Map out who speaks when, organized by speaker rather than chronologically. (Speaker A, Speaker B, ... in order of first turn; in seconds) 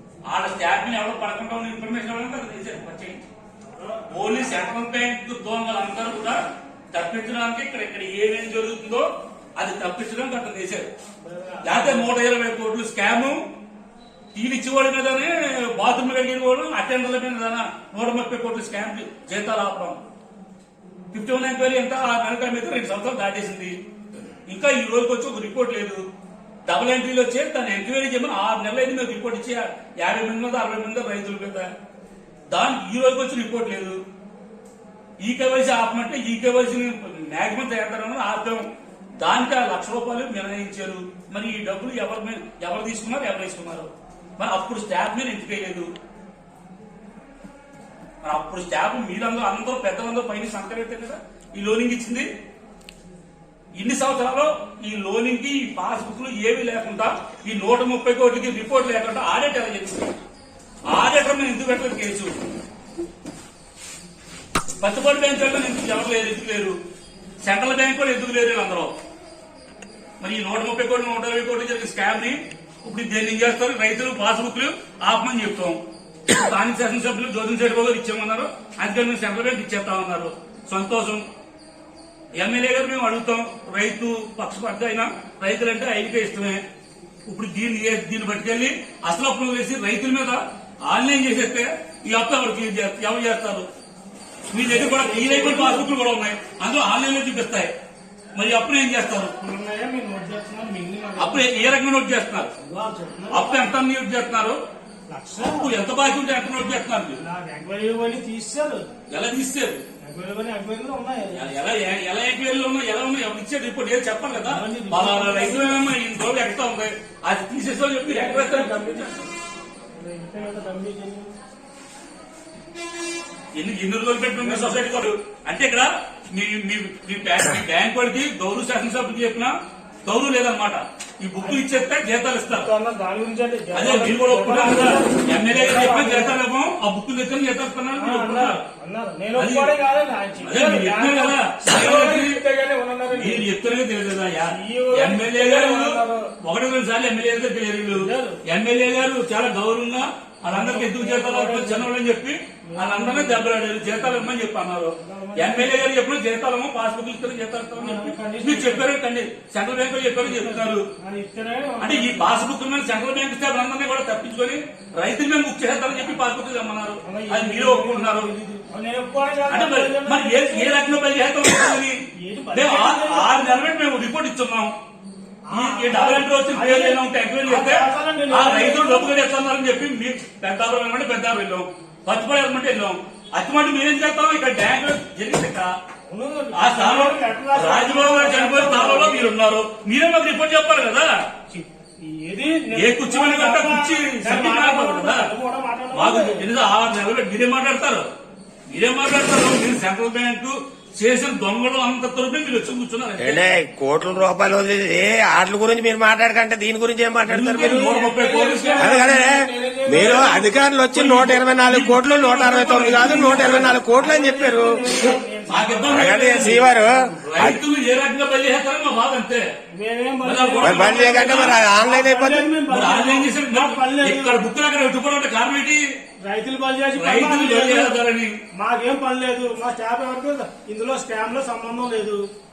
Speaker A: 0.3-3.2, 4.1-6.4, 6.9-9.1, 9.6-10.9, 11.6-13.4, 14.3-20.0, 21.1-23.8, 24.4-26.0, 26.6-31.7, 32.5-34.0, 35.2-38.7, 39.2-45.9, 48.2-52.3, 53.8-60.1, 60.9-62.3, 64.8-66.8, 67.4-68.9, 70.2-81.2, 82.3-86.6, 87.2-93.7, 94.5-97.7, 98.3-99.3, 101.2-102.5, 103.3-104.6, 105.4-107.2, 109.1-109.8, 111.3-119.2, 123.5-129.5, 130.0-132.7, 133.7-138.6, 139.3-139.7, 140.4-142.4, 143.1-160.8, 161.8-168.3, 169.5-171.9, 172.5-174.7, 175.5-185.7, 186.5-191.1, 192.7-195.3, 195.9-198.1, 198.7-203.4, 207.3-209.1, 210.9-213.8, 215.5-216.7, 217.2-219.5, 220.2-221.7, 222.7-225.8, 226.9-228.3
Speaker B: 11.2-12.1, 94.7-95.9, 99.4-101.5, 102.6-103.7, 105.1-105.7, 107.2-108.9, 110.0-111.4, 114.3-115.8, 118.0-119.1, 120.0-121.3, 124.4-124.8, 131.4-131.7, 132.5-136.4, 137.9-143.4, 144.5-146.3, 147.9-148.4, 150.5-151.9, 152.7-154.2, 155.0-155.8, 157.8-158.9, 160.2-162.4, 167.0-170.9, 172.2-173.6, 175.5-179.2, 186.1-189.3, 191.5-196.4, 207.6-210.6, 212.8-217.2, 219.7-224.4, 226.2-227.9, 228.5-232.3
Speaker C: 203.2-207.9, 208.8-215.2, 215.9-217.6, 220.6-222.5